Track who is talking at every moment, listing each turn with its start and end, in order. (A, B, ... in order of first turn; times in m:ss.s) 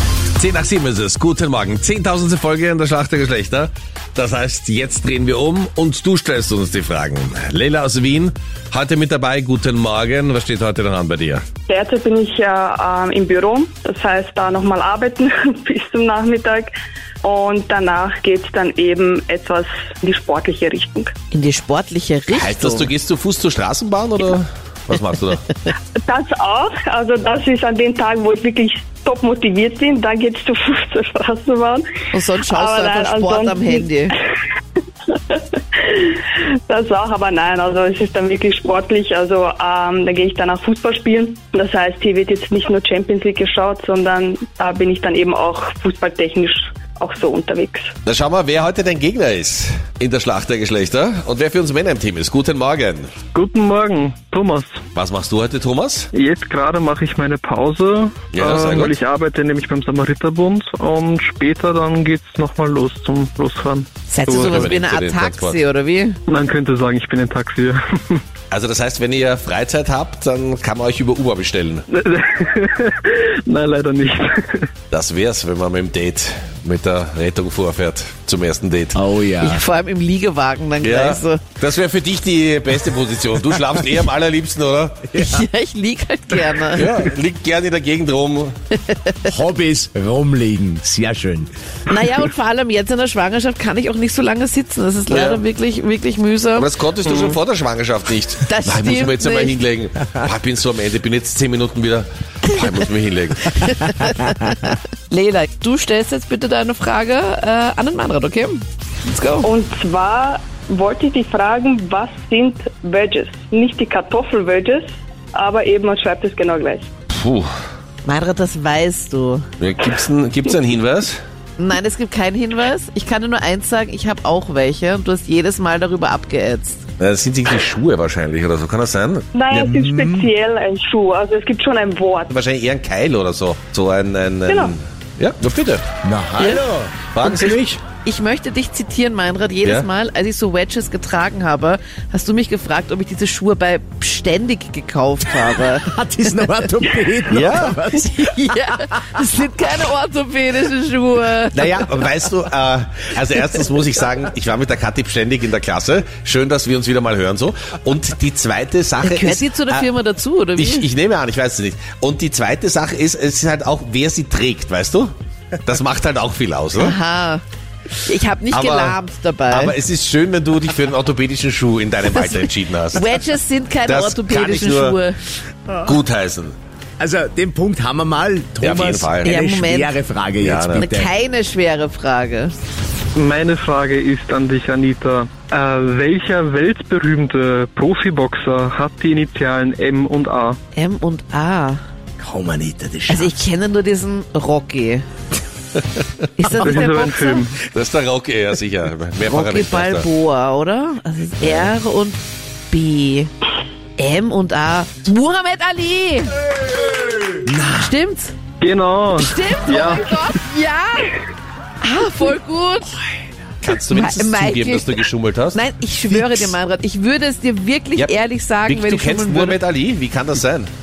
0:00.4-0:11.4 A
0:11.7-0:16.7 B
0:17.2-0:21.1 B
0:21.3-0:22.9 C
0:22.3-0:25.4 A
0:26.0-0:31.8 B
0:32.1-0:34.2 C
0:32.5-0:33.9 B
0:35.1-0:47.9 B
0:48.0-0:53.1 A
0:53.3-0:54.8 D
0:54.9-0:56.1 A
0:56.1-1:04.7 D
0:58.3-0:58.9 A
1:04.1-1:06.2 C
1:04.3-1:05.6 A
1:06.3-1:08.2 D
1:08.5-1:11.8 A
1:11.9-1:14.7 D
1:14.9-1:19.0 A
1:18.9-1:19.6 E
1:19.4-1:21.4 C
1:20.8-1:25.1 A
1:25.1-1:27.0 C
1:26.7-1:28.5 A
1:28.8-1:29.3 C
1:29.2-1:31.5 E
1:31.9-1:36.7 C
1:35.1-1:35.4 A
1:36.6-1:43.6 A
1:38.4-1:39.6 C
1:43.6-1:49.5 C
1:49.4-1:56.9 B
1:57.1-1:57.5 A
1:58.0-1:59.5 C
1:59.6-2:01.2 A
2:01.6-2:06.8 C
2:07.0-2:09.8 A
2:09.3-2:12.3 B
2:12.3-2:15.8 A
2:16.0-2:17.0 E
2:17.1-2:17.8 A
2:18.0-2:25.9 C
2:25.5-2:28.7 E
2:27.3-2:27.8 A
2:27.9-2:31.7 C
2:31.5-2:39.9 A
2:39.0-2:40.9 C
2:40.6-2:45.1 A
2:45.6-2:47.0 A
2:46.8-2:47.4 C
2:48.0-2:49.8 C
2:48.5-2:49.0 A
2:49.5-2:53.0 A
2:52.1-2:55.2 C
2:53.9-2:55.0 A
2:55.8-2:56.5 A
2:57.0-3:01.1 E
2:58.6-2:59.4 A
2:59.2-3:00.0 C
3:00.4-3:00.8 A
3:00.7-3:02.6 C
3:03.1-3:10.6 D
3:10.7-3:11.8 C
3:12.2-3:13.4 E
3:13.1-3:15.0 C
3:16.4-3:17.4 C
3:16.6-3:17.6 D
3:17.6-3:20.1 A
3:19.2-3:22.2 C
3:22.7-3:23.3 C
3:24.0-3:26.3 C
3:27.5-3:27.9 E
3:27.7-3:28.4 C
3:28.6-3:30.2 D
3:29.1-3:31.1 C
3:31.8-3:33.0 C
3:33.6-3:35.6 A
3:33.9-3:39.6 C
3:38.0-3:40.7 A